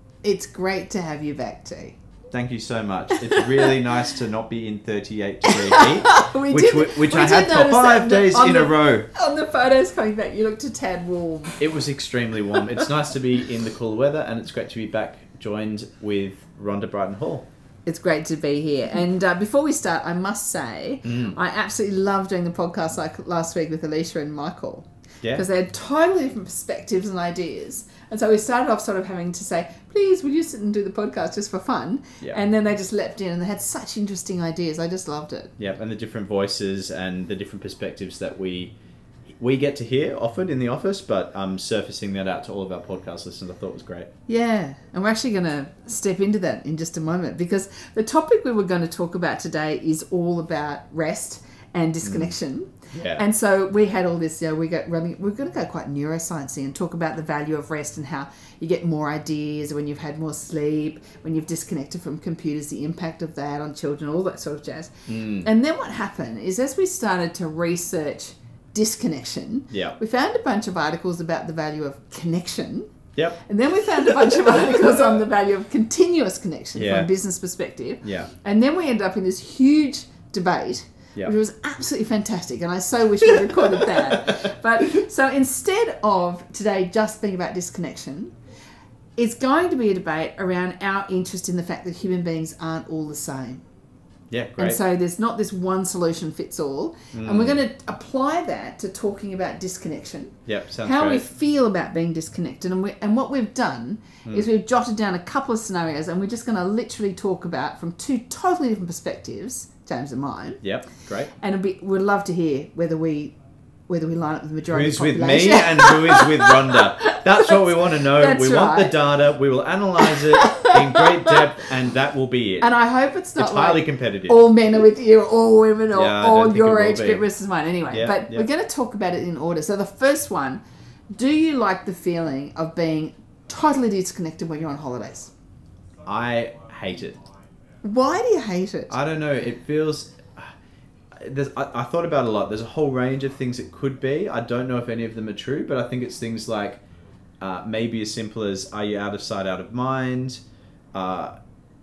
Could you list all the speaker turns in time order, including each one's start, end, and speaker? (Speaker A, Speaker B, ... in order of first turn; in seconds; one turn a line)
Speaker A: 0.2-2.0
Speaker B: 2.3-9.1
Speaker A: 3.1-4.0
Speaker A: 5.5-11.6
Speaker B: 11.6-17.5
Speaker A: 17.9-35.5
Speaker B: 21.0-21.4
Speaker B: 35.6-38.7
Speaker B: 39.4-44.1
Speaker A: 44.3-72.9
Speaker B: 52.0-52.4
Speaker B: 52.9-53.2
Speaker B: 65.1-65.5
Speaker B: 69.7-70.0
Speaker B: 73.2-73.4
Speaker A: 73.5-88.3
Speaker B: 74.1-75.0
Speaker B: 76.8-77.1
Speaker B: 78.0-78.3
Speaker A: 89.2-93.6
Speaker B: 94.3-94.8
Speaker A: 94.6-110.6
Speaker B: 97.1-97.6
Speaker B: 100.5-101.3
Speaker B: 110.6-111.3
Speaker A: 111.4-113.3
Speaker A: 113.9-119.0
Speaker B: 114.7-122.7
Speaker A: 120.1-121.3
Speaker A: 122.6-130.6
Speaker B: 123.4-124.4
Speaker B: 125.9-127.2
Speaker B: 127.9-128.5
Speaker A: 131.2-135.3
Speaker B: 136.1-137.2
Speaker A: 137.8-138.9
Speaker B: 138.9-140.5
Speaker B: 141.2-146.8
Speaker B: 147.4-150.4
Speaker B: 150.9-151.3